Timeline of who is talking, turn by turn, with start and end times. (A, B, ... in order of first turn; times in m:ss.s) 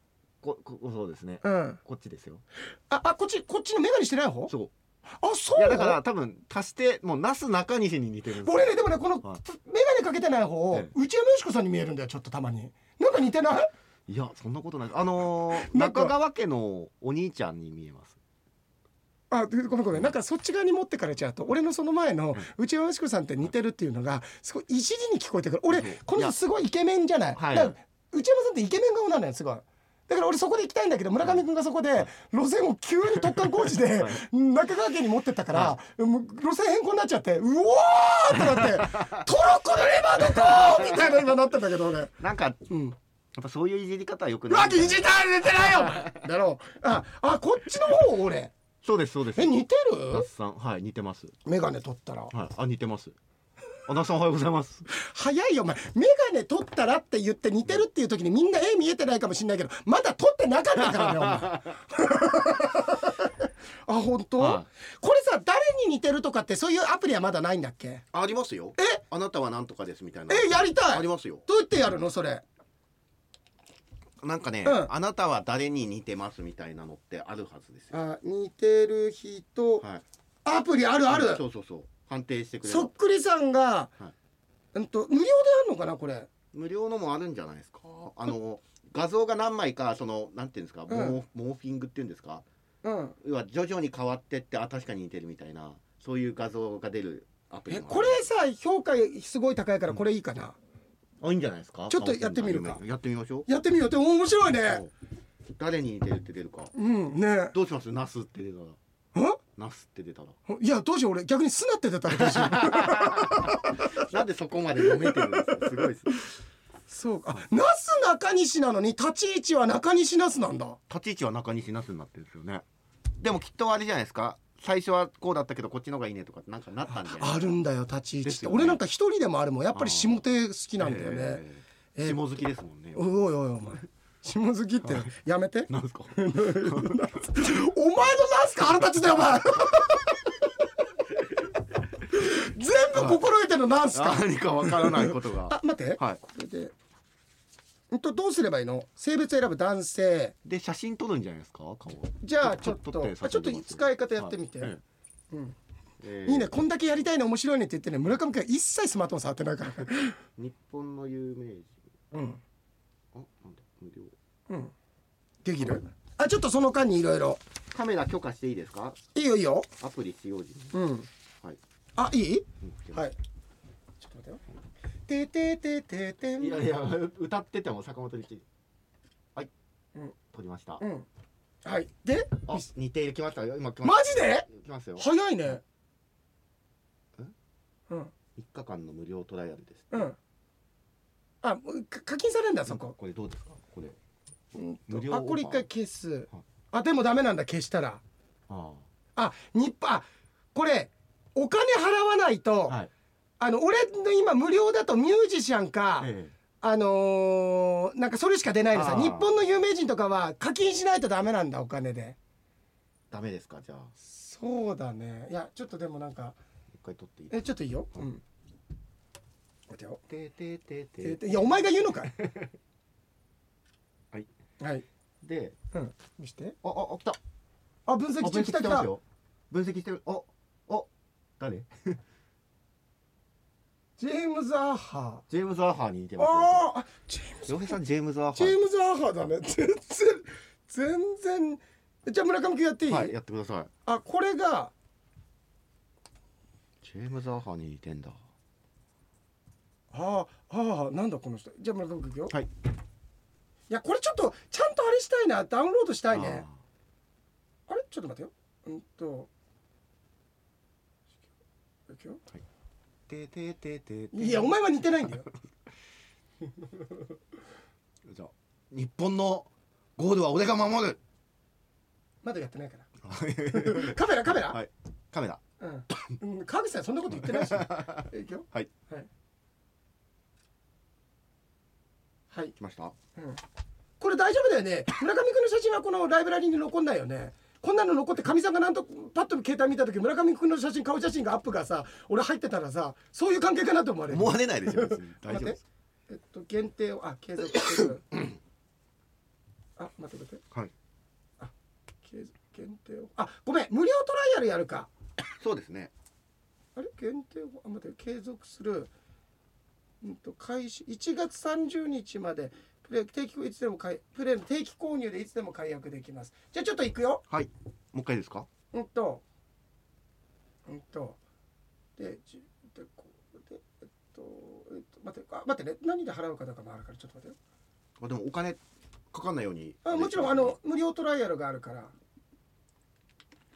0:00.4-0:02.4 A
0:01.4-0:01.8 B
0:02.9-0:04.5 B
0:05.2-0:06.0 B
0:05.6-0:09.4 A
0:08.4-0:13.7 B
0:14.1-0:18.2 A
0:15.5-0:16.1 B
0:19.3-0:42.1 B
0:25.7-0:26.4 A
0:27.3-0:27.7 A
0:33.2-0:34.2 A
0:35.5-0:35.8 A
0:38.3-0:39.2 A
0:40.2-0:41.1 A
0:42.2-0:42.6 A
0:42.7-0:43.0 B
0:43.3-0:46.2 A
0:44.5-0:48.5 B
0:48.8-0:51.3 A
0:49.4-0:50.3 B
0:51.4-0:52.3 B
0:52.3-0:53.2 A
0:53.9-0:54.8 A
0:54.9-1:03.3 B
1:00.8-1:01.7 A
1:03.9-1:08.0 B
1:04.4-1:04.6 A
1:08.1-1:11.4 A
1:10.3-1:12.4 B
1:14.2-1:17.9 A
1:14.6-1:14.9 B
1:17.9-1:19.8 B
1:20.4-1:21.4 B
1:21.1-1:22.9 A
1:22.6-1:23.9 B
1:24.7-1:26.3 B
1:26.5-1:32.4 A
1:30.9-1:31.2 B
1:32.8-1:33.2 B
1:33.2-1:38.2 A
1:37.7-1:40.6 B
1:41.2-1:43.5 A
1:41.9-1:42.8 B
1:43.4-1:44.8 B
1:44.6-1:44.9 A
1:45.5-1:46.7 A
1:46.7-1:47.5 B
1:47.5-1:48.8 A
1:49.6-1:50.3 A
1:50.5-1:54.0 B
1:52.1-1:56.1 A
1:54.8-1:55.8 B
1:56.9-2:00.8 B
2:00.9-2:02.6 A
2:03.2-2:07.5 A
2:06.9-2:11.4 B
2:08.2-2:08.8 A
2:09.7-2:10.2 A
2:10.8-2:13.0 A
2:12.9-2:20.3 B
2:14.8-2:15.1 A
2:15.7-2:17.1 A
2:22.1-2:26.7 B
2:22.9-2:23.2 A
2:23.9-2:26.2 A
2:27.9-2:30.3 B
2:30.4-2:34.8 A
2:32.2-2:34.7 B
2:36.0-2:36.5 A
2:36.2-2:40.2 B
2:40.4-2:41.7 A
2:42.1-2:42.4 B
2:43.1-2:44.1 A
2:45.4-2:47.4 B
2:47.7-2:49.0 A
2:49.1-2:49.7 B
2:49.8-2:50.7 A
2:50.7-2:51.1 B
2:52.0-2:53.1 B
2:52.6-2:53.1 A
2:54.0-2:54.4 B
2:55.1-2:56.7 B
2:56.4-2:58.4 A
3:00.3-3:00.8 A
3:00.8-3:01.1 B
3:01.6-3:02.6 B
3:02.4-3:05.0 A
3:03.8-3:05.6 B
3:08.4-3:10.1 A
3:09.9-3:10.2 B
3:11.4-3:12.9 B
3:12.7-3:14.0 A
3:14.5-3:18.0 B
3:14.9-3:15.6 A
3:18.5-3:18.8 A
3:19.2-3:22.8 B
3:23.4-3:32.2 B
3:26.0-3:26.3 A
3:28.7-3:29.3 A
3:33.1-3:33.9 A
3:34.0-3:36.4 B
3:36.7-3:38.0 A
3:37.3-3:38.2 B
3:39.7-3:40.0 B
3:40.1-3:42.5 A
3:41.0-3:42.1 B
3:44.6-3:44.8 B
3:45.2-3:45.6 A
3:45.7-3:46.6 B
3:46.6-3:47.2 A
3:47.8-3:48.9 B
3:48.2-3:52.0 A
3:54.0-3:55.2 B
3:55.3-3:56.6 A
3:56.2-3:57.8 B
3:57.5-3:58.6 A
3:58.3-4:03.1 B
4:02.9-4:03.7 A
4:03.8-4:04.7 B
4:06.8-4:08.2 A
4:09.9-4:12.3 B
4:13.7-4:16.4 B
4:16.1-4:16.5 A
4:17.7-4:19.3 B
4:21.9-4:22.2 B
4:23.1-4:24.5 A
4:24.1-4:25.3 B
4:28.0-4:31.0 A
4:32.2-4:32.9 B
4:33.0-4:36.2 A
4:33.5-4:34.6 B
4:35.6-4:39.1 B
4:37.1-4:38.7 A
4:42.6-4:42.9 A
4:44.0-4:55.6 B
4:54.1-4:55.6 A
4:56.1-4:58.0 B
4:57.5-4:58.2 A
4:59.8-5:00.4 B
5:02.0-5:04.9 B
5:05.4-5:05.9 A
5:06.8-5:08.9 B
5:10.0-5:17.2 B
5:17.3-5:18.5 A
5:18.7-5:19.2 B
5:20.7-5:21.2 B
5:22.0-5:27.4 B
5:28.0-5:30.6 A
5:29.8-5:31.9 B